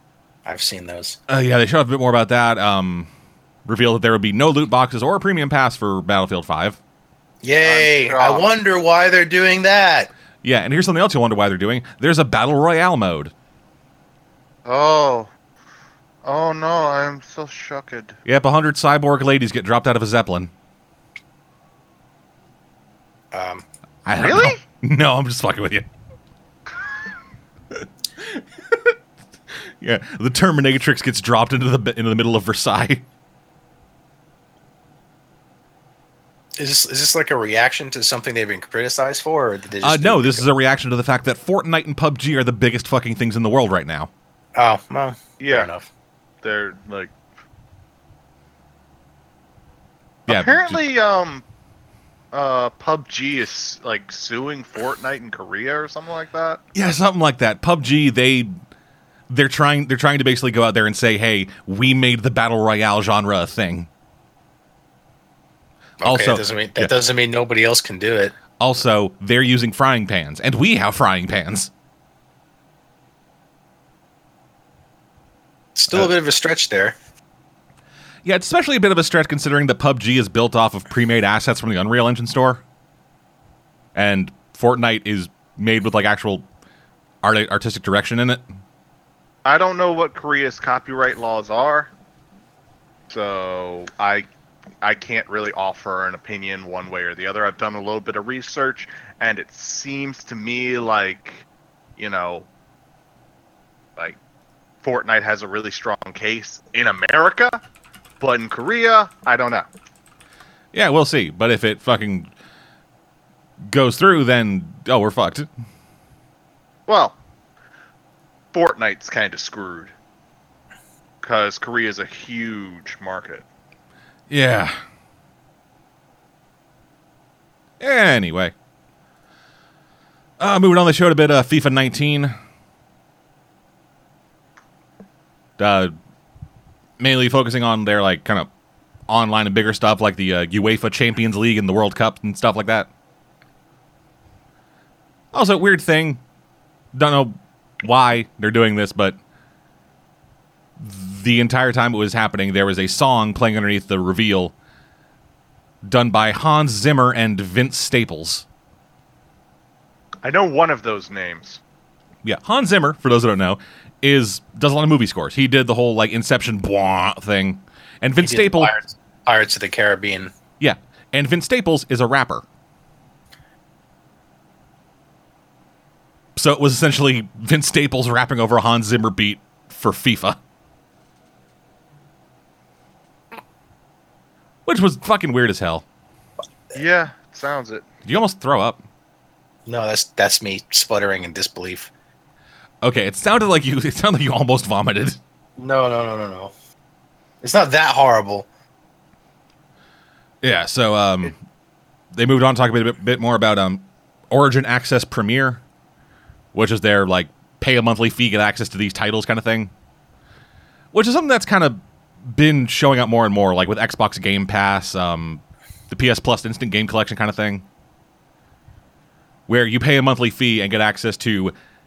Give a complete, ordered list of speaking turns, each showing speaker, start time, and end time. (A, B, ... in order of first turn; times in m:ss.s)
0:00.4-0:01.2 A
0:01.3-0:03.1 B
0:03.7-0:06.8 B
0:07.4-0:10.1 A
0:07.6-0:08.5 C
0:10.4-0:13.3 B
0:14.7-0:15.3 C
0:16.2-0:18.2 C
0:18.3-0:20.5 B
0:23.3-0:23.6 A
0:24.1-0:25.9 B
0:24.2-0:24.6 C
0:27.7-0:29.0 B
0:29.8-0:33.0 B
0:36.6-0:40.5 A
0:39.8-0:44.1 B
0:44.6-0:45.9 A
0:45.4-0:45.7 C
0:46.4-0:47.1 C
0:50.3-0:50.8 B
0:50.3-0:51.4 C
0:52.3-0:56.6 C
0:56.7-0:58.5 B
0:59.3-1:03.9 B
1:06.0-1:08.4 A
1:06.0-1:06.9 B
1:08.6-1:11.7 B
1:15.8-1:17.0 A
1:18.2-1:22.6 B
1:24.0-1:26.4 B
1:27.2-1:28.4 B
1:29.4-1:31.9 C
1:33.1-1:34.3 C
1:34.8-1:41.4 C
1:42.0-1:42.5 C
1:44.8-1:47.6 C
1:48.2-1:49.7 C
1:50.7-1:52.3 B
1:53.7-1:55.5 B
1:56.9-1:57.2 C
1:58.5-1:59.9 C
2:01.2-2:03.4 C
2:04.3-2:04.8 B
2:07.8-2:08.5 B
2:10.4-2:12.3 B
2:15.6-2:15.9 B
2:17.0-2:18.5 B
2:19.1-2:22.9 B
2:25.3-2:26.2 B
2:26.9-2:29.2 B
2:30.8-2:34.5 B
2:35.8-2:38.4 B
2:40.2-2:41.6 C
2:42.2-2:48.7 B
2:48.2-2:50.3 A
2:50.6-2:52.4 B
2:56.4-3:00.4 B
3:04.7-3:05.8 B
3:06.8-3:07.9 C
3:08.0-3:08.8 B
3:09.7-3:11.9 A
3:12.8-3:15.2 B
3:15.6-3:16.5 A
3:17.4-3:18.5 A
3:20.4-3:21.4 B
3:22.1-3:25.6 B
3:26.5-3:29.7 B
3:30.9-3:37.6 B
3:39.5-3:41.5 B